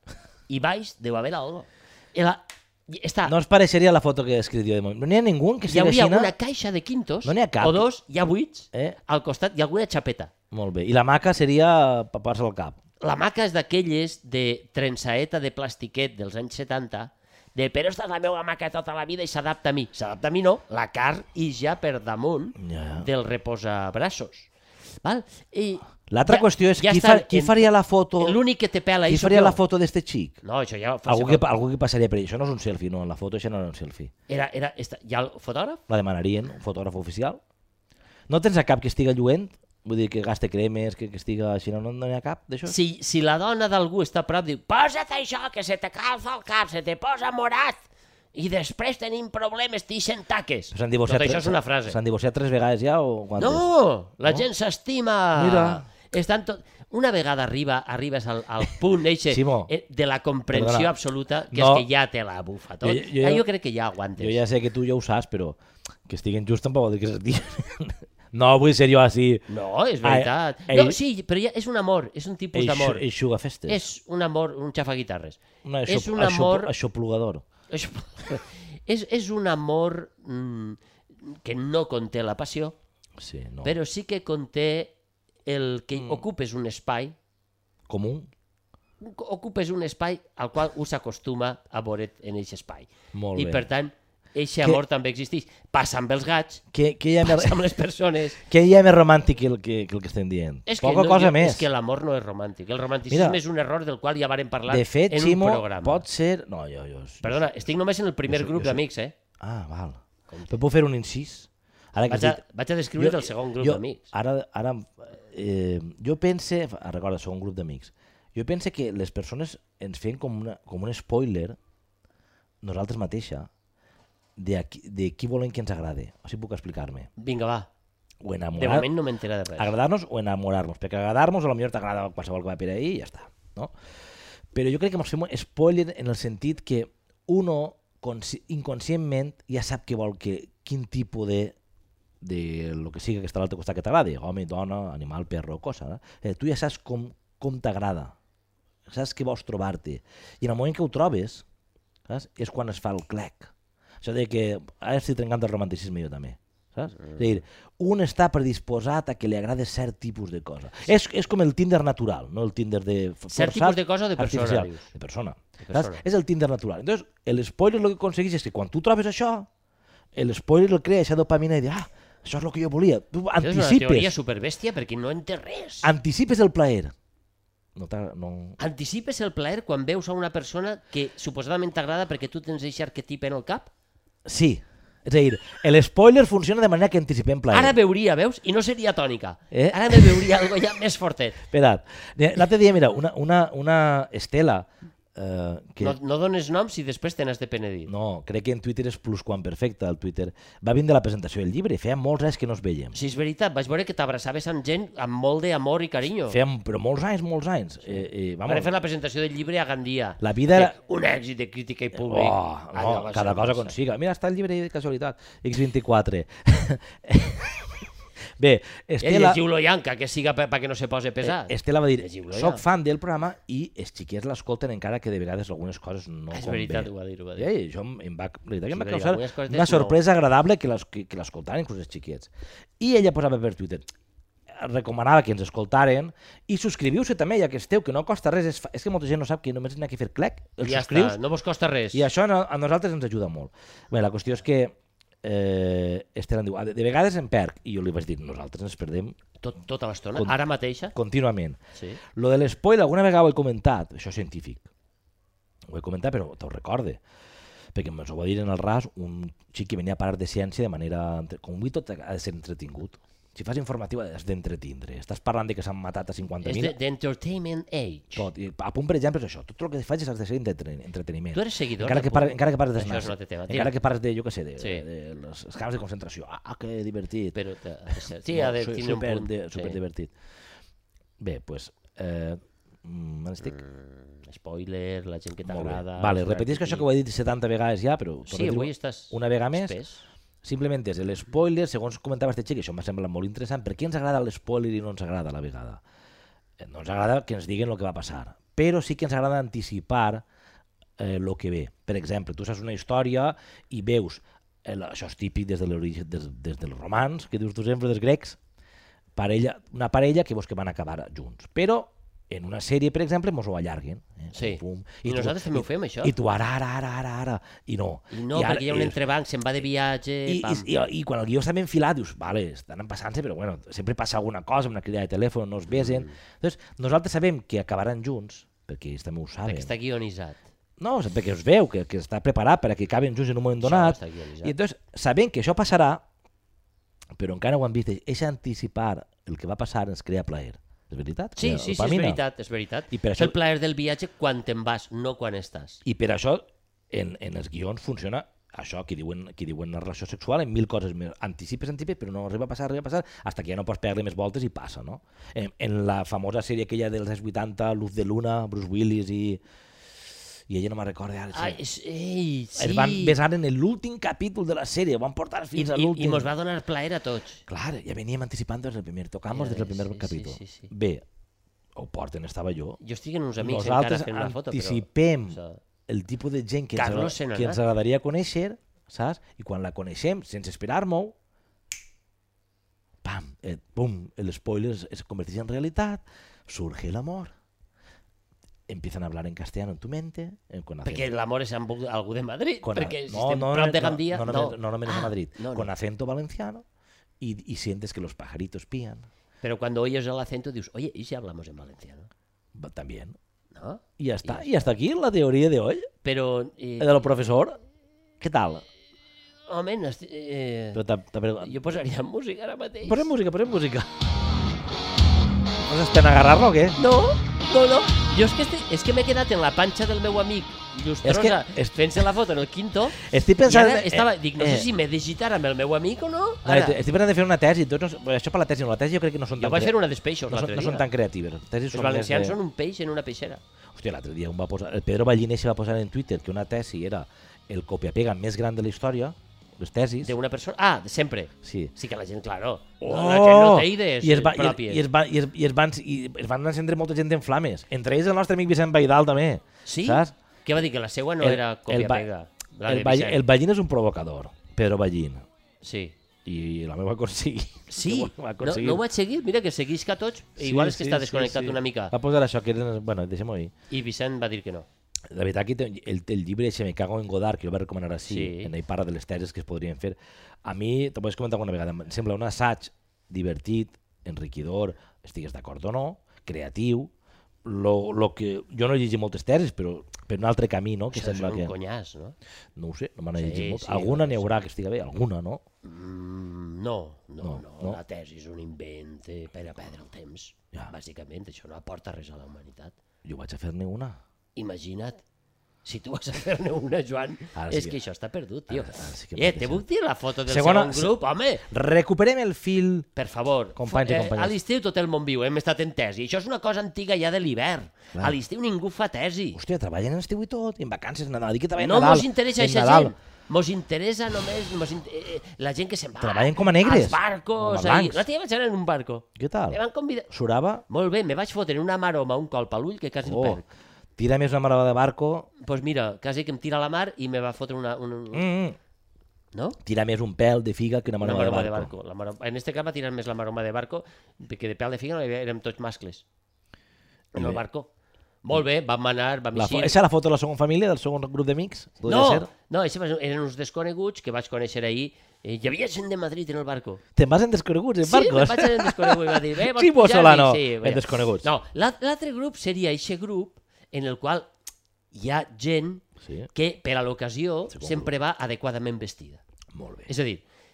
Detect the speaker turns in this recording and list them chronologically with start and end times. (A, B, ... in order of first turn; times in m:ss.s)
0:00.5-0:03.3 A
0:03.3-0:06.3 B
0:05.7-0:10.3 A
0:07.2-0:07.9 B
0:08.7-0:09.0 B
0:10.5-0:12.8 B
0:13.0-0:24.5 A
0:22.6-0:23.1 B
0:25.0-0:27.7 A
0:26.1-0:28.4 B
0:28.2-0:29.6 A
0:29.1-0:30.4 B
0:30.4-0:31.4 A
0:31.1-0:34.1 B
0:34.3-0:35.8 A
0:35.9-0:37.4 B
0:38.3-0:42.8 B
0:42.6-0:52.0 A
0:50.7-0:53.7 B
0:53.4-1:04.4 A
0:55.4-0:55.8 B
0:59.3-0:59.7 B
1:00.5-1:00.9 B
1:01.5-1:01.9 B
1:02.8-1:03.5 B
1:04.2-1:09.5 B
1:09.5-1:13.1 A
1:10.0-1:11.0 B
1:12.5-1:13.8 B
1:13.7-1:16.7 A
1:15.6-1:17.4 B
1:17.7-1:22.8 A
1:23.2-1:23.8 B
1:23.6-1:24.9 A
1:25.5-1:27.2 A
1:26.0-1:26.2 B
1:27.9-1:28.3 B
1:29.0-1:36.6 A
1:33.1-1:33.7 B
1:36.7-1:37.6 B
1:37.2-1:38.4 A
1:38.4-1:41.7 B
1:40.7-1:46.0 A
1:43.1-1:43.4 B
1:44.7-1:47.7 B
1:47.2-1:49.1 A
1:48.3-1:48.8 B
1:49.4-1:52.4 B
1:50.3-1:50.5 A
1:52.1-1:54.1 A
1:53.0-2:01.6 B
2:02.6-2:03.5 B
2:04.4-2:07.1 B
2:07.2-2:07.7 A
2:08.2-2:08.9 B
2:08.6-2:09.8 A
2:09.6-2:13.7 B
2:14.5-2:21.6 B
2:22.2-2:28.2 B
2:28.9-2:31.4 B
2:32.1-2:49.5 B
2:37.0-2:37.4 A
2:43.3-2:44.9 A
2:45.6-2:46.0 A
2:50.2-2:54.1 B
2:53.4-2:55.9 A
2:55.8-2:56.9 B
2:57.8-2:58.6 B
2:58.6-3:03.7 A
3:04.2-3:07.8 B
3:07.5-3:11.4 A
3:09.5-3:10.3 B
3:11.5-3:16.0 B
3:15.8-3:17.9 A
3:17.9-3:23.0 B
3:22.9-3:26.4 A
3:26.3-3:28.7 B
3:28.5-3:33.8 A
3:30.2-3:30.8 B
3:31.9-3:37.8 B
3:38.4-3:39.4 B
3:39.0-3:42.6 A
3:41.2-3:53.8 B
3:46.3-3:47.5 A
3:48.7-3:50.0 A
3:54.5-4:01.2 B
4:00.6-4:02.1 A
4:01.9-4:09.2 B
4:09.4-4:10.9 A
4:10.9-4:11.6 B
4:12.1-4:14.7 B
4:15.7-4:17.0 B
4:17.7-4:26.8 B
4:26.4-4:28.3 A
4:28.2-4:37.4 B
4:31.3-4:33.7 A
4:34.6-4:34.9 A
4:37.3-4:39.8 A
4:38.0-4:40.1 B
4:41.2-4:43.6 B
4:43.4-4:46.9 A
4:45.4-4:49.8 B
4:48.3-4:50.0 A
4:50.4-4:55.8 B
4:56.6-5:00.2 B
5:01.0-5:08.4 B
5:09.2-5:19.0 B
5:14.3-5:16.1 A
5:18.1-5:20.7 A
5:20.3-5:29.7 B
5:25.7-5:26.1 A
5:29.4-5:30.4 A
5:30.8-5:36.0 B
5:33.6-5:34.6 A
5:37.2-5:42.2 B
5:41.4-5:45.8 A
5:42.9-5:43.4 B
5:45.8-5:59.4 B
6:00.5-6:01.6 B
6:01.3-6:03.2 A
6:02.6-6:06.3 B
6:05.6-6:07.4 A
6:07.5-6:11.0 B
6:09.3-6:10.7 A
6:11.8-6:12.8 B
6:12.8-6:15.6 A
6:13.4-6:21.2 B
6:16.7-6:17.6 A
6:23.0-6:27.3 B
6:28.7-6:31.1 B
6:30.8-6:35.7 A
6:32.6-6:36.6 B
6:37.2-6:39.1 B
6:39.4-6:42.1 A
6:42.6-6:43.2 B
6:43.5-6:44.5 A
6:44.0-6:45.9 B
6:46.0-6:46.9 A
6:46.8-6:47.6 B
6:48.2-6:48.6 B
6:49.5-6:50.8 A
6:50.7-6:51.6 B
6:51.4-6:53.1 A
6:52.8-6:53.9 B
6:55.6-6:56.8 B
6:56.8-7:06.8 A
7:01.0-7:01.8 B
7:03.0-7:04.7 B
7:06.4-7:09.7 B
7:09.4-7:10.9 A
7:10.3-7:12.4 B
7:11.7-7:13.4 A
7:13.7-7:20.2 B
7:20.0-7:24.8 A
7:21.4-7:21.7 B
7:22.8-7:30.1 B
7:29.6-7:33.2 A
7:31.2-7:32.1 B
7:32.6-7:35.2 B
7:35.6-7:36.0 A
7:36.2-7:38.8 B
7:37.7-7:41.9 A
7:40.4-7:43.5 B
7:43.7-7:44.7 A
7:45.1-7:56.9 B
7:48.0-7:48.5 A
7:57.4-8:01.5 B
8:00.9-8:02.2 A
8:02.6-8:05.4 B
8:03.2-8:04.3 A
8:05.6-8:12.8 A
8:07.2-8:07.8 B
8:13.0-8:14.0 B
8:14.4-8:15.0 A
8:15.6-8:21.4 A
8:17.3-8:17.8 B
8:18.5-8:19.6 B
8:20.3-8:22.9 B
8:23.0-8:29.4 A
8:23.6-8:24.4 B
8:29.3-8:32.9 B
8:31.6-8:40.1 A
8:36.0-8:38.0 B
8:39.2-8:40.6 B
8:40.7-8:43.5 A
8:43.0-8:43.4 B
8:44.0-8:45.3 B
8:45.4-8:48.3 A
8:48.1-8:48.6 B
8:49.3-8:49.6 A
8:49.6-8:51.7 B
8:51.0-8:56.0 A
8:57.1-8:57.7 A
8:57.2-8:57.4 B
8:58.2-8:59.8 A
8:59.4-9:02.3 B
9:01.8-9:06.8 A
9:07.0-9:11.3 B
9:07.8-9:14.3 A
9:14.9-9:19.2 A
9:16.0-9:16.3 B
9:17.5-9:17.9 B
9:19.5-9:19.9 B
9:19.9-9:20.2 A